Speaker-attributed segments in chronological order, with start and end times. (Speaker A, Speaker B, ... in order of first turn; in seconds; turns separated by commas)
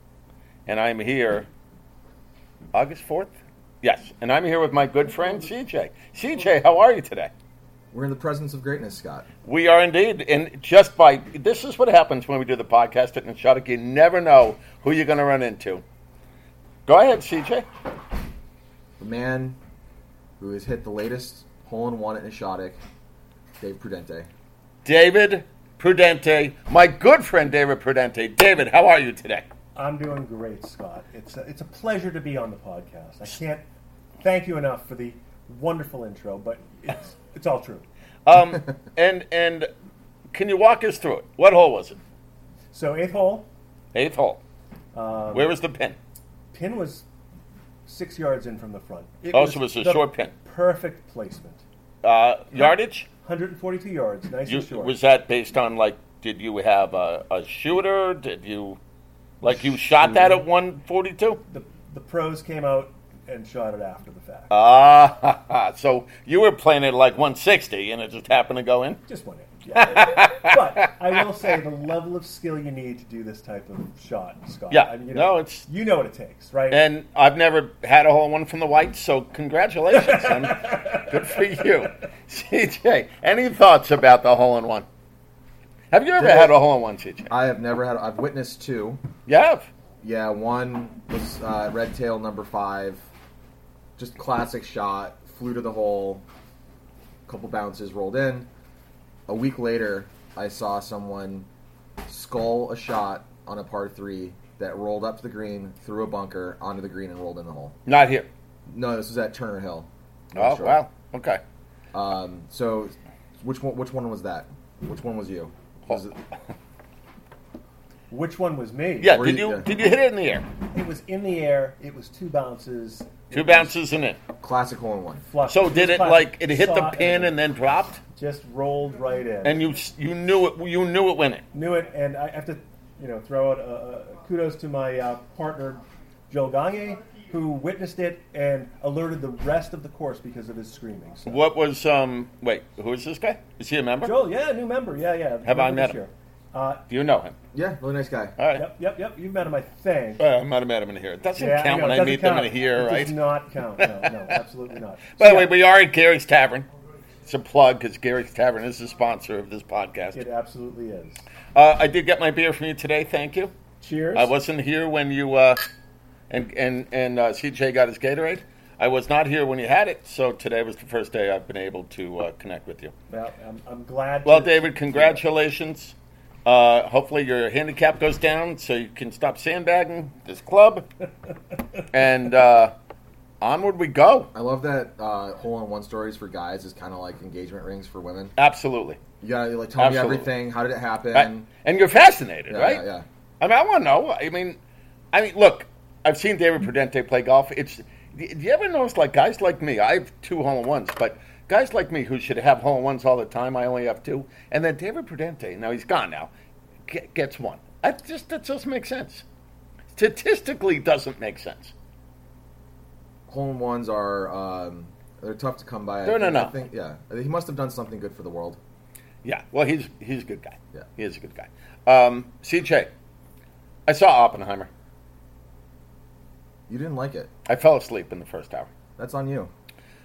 Speaker A: 0.7-1.5, Speaker A: 2.7-7.3, Speaker B: 7.9-9.3, Speaker A: 9.4-15.8, Speaker A: 16.9-17.7, Speaker B: 19.0-19.6, Speaker B: 20.4-22.8, Speaker B: 23.6-24.3, Speaker A: 24.8-29.4, Speaker C: 29.7-33.6, Speaker C: 34.2-37.9, Speaker A: 38.2-39.7, Speaker A: 40.3-42.0, Speaker C: 42.7-43.5, Speaker A: 43.9-44.4, Speaker C: 44.9-45.5, Speaker A: 45.3-46.0, Speaker C: 46.5-47.0, Speaker C: 47.9-51.6, Speaker A: 49.3-50.3, Speaker A: 52.0-53.1, Speaker C: 53.2-55.0, Speaker A: 54.5-58.8, Speaker A: 59.4-61.4, Speaker C: 61.5-64.5, Speaker A: 64.5-69.0, Speaker C: 69.1-76.8, Speaker A: 69.7-71.2, Speaker A: 74.7-75.7, Speaker A: 76.7-84.8, Speaker C: 80.1-81.3, Speaker A: 85.9-87.3, Speaker B: 86.2-86.5, Speaker B: 87.3-89.0, Speaker A: 89.3-89.7, Speaker B: 90.0-93.0, Speaker B: 94.0-96.2, Speaker B: 97.3-98.5, Speaker B: 99.3-101.5, Speaker B: 102.1-107.8, Speaker A: 107.8-108.3, Speaker B: 108.7-110.8, Speaker A: 110.3-111.4, Speaker B: 111.9-116.2, Speaker C: 118.1-119.2, Speaker A: 119.0-120.5, Speaker B: 119.1-119.7, Speaker C: 120.7-123.7, Speaker A: 123.3-124.2, Speaker B: 124.4-125.2, Speaker C: 125.3-127.3, Speaker A: 125.5-128.0, Speaker C: 128.1-129.6, Speaker A: 129.4-131.4, Speaker C: 131.5-141.4, Speaker A: 141.2-144.2, Speaker C: 144.0-146.8, Speaker A: 145.4-146.0, Speaker A: 146.9-147.3, Speaker B: 147.5-148.3, Speaker A: 148.4-148.7, Speaker C: 148.5-150.2, Speaker A: 150.2-153.1, Speaker C: 151.4-155.5, Speaker A: 153.8-154.3, Speaker A: 155.2-156.7, Speaker A: 157.2-160.2, Speaker C: 160.1-161.2, Speaker A: 161.5-163.5, Speaker C: 163.8-164.3, Speaker A: 164.1-165.6, Speaker A: 166.3-172.9, Speaker C: 173.1-175.2, Speaker A: 174.2-180.9, Speaker A: 181.9-182.7, Speaker A: 183.4-184.3, Speaker B: 184.3-188.3, Speaker A: 188.4-189.0, Speaker B: 189.2-191.5, Speaker A: 189.8-190.3, Speaker A: 191.1-192.8, Speaker B: 192.5-193.1, Speaker A: 193.4-194.6, Speaker A: 195.1-206.3, Speaker A: 206.9-209.2, Speaker A: 209.9-211.7, Speaker B: 213.3-218.6, Speaker A: 216.0-216.5, Speaker A: 219.2-222.9, Speaker A: 223.9-224.7, Speaker B: 226.7-227.3, Speaker A: 227.4-228.7, Speaker B: 229.0-229.5